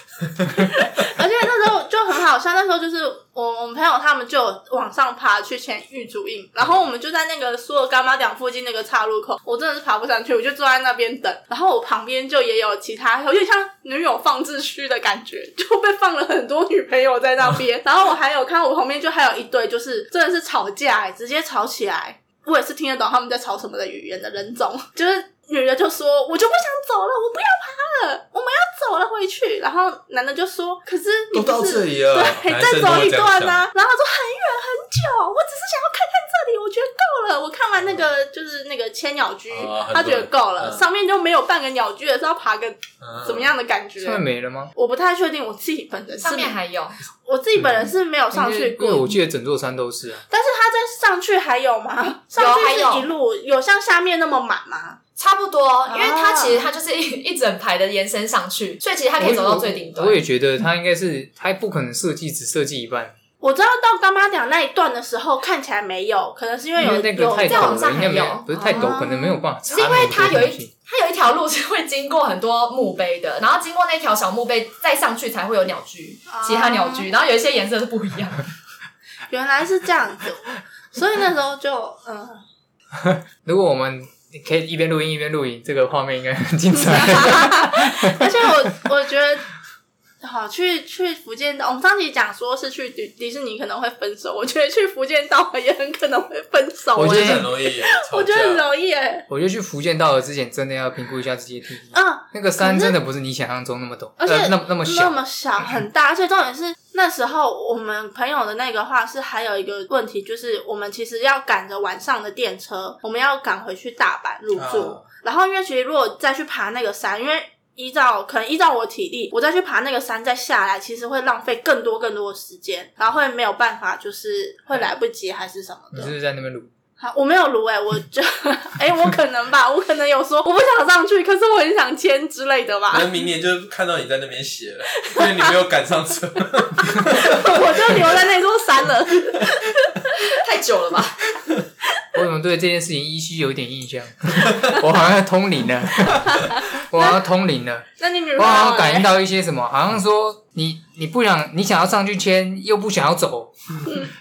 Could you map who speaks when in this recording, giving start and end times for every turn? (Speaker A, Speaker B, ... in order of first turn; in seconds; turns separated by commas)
Speaker A: 0.6-44.2, Speaker B: 31.3-33.7, Speaker B: 37.8-38.0, Speaker B: 39.5-40.9, Speaker B: 43.0-43.5, Speaker C: 44.0-44.7, Speaker A: 44.8-46.5, Speaker D: 46.2-47.0, Speaker A: 47.2-49.1, Speaker C: 48.3-50.2, Speaker A: 50.3-55.0, Speaker D: 52.4-53.1, Speaker D: 55.2-60.2, Speaker A: 55.9-56.7, Speaker C: 59.2-63.1, Speaker A: 63.4-69.4, Speaker C: 66.8-70.7, Speaker D: 67.4-69.0, Speaker D: 69.7-78.5, Speaker A: 76.3-77.1, Speaker A: 79.3-82.4, Speaker C: 83.0-88.5, Speaker A: 86.7-89.5, Speaker A: 90.2-99.3, Speaker C: 97.0-97.5, Speaker B: 97.0-98.7, Speaker C: 99.3-105.2, Speaker A: 101.9-103.0, Speaker A: 104.2-126.1, Speaker B: 114.5-115.1, Speaker C: 125.9-126.7, Speaker A: 127.0-133.1, Speaker B: 132.9-138.2, Speaker A: 135.0-135.5, Speaker A: 137.2-139.9, Speaker D: 140.2-141.2, Speaker C: 142.1-153.9, Speaker A: 148.0-149.1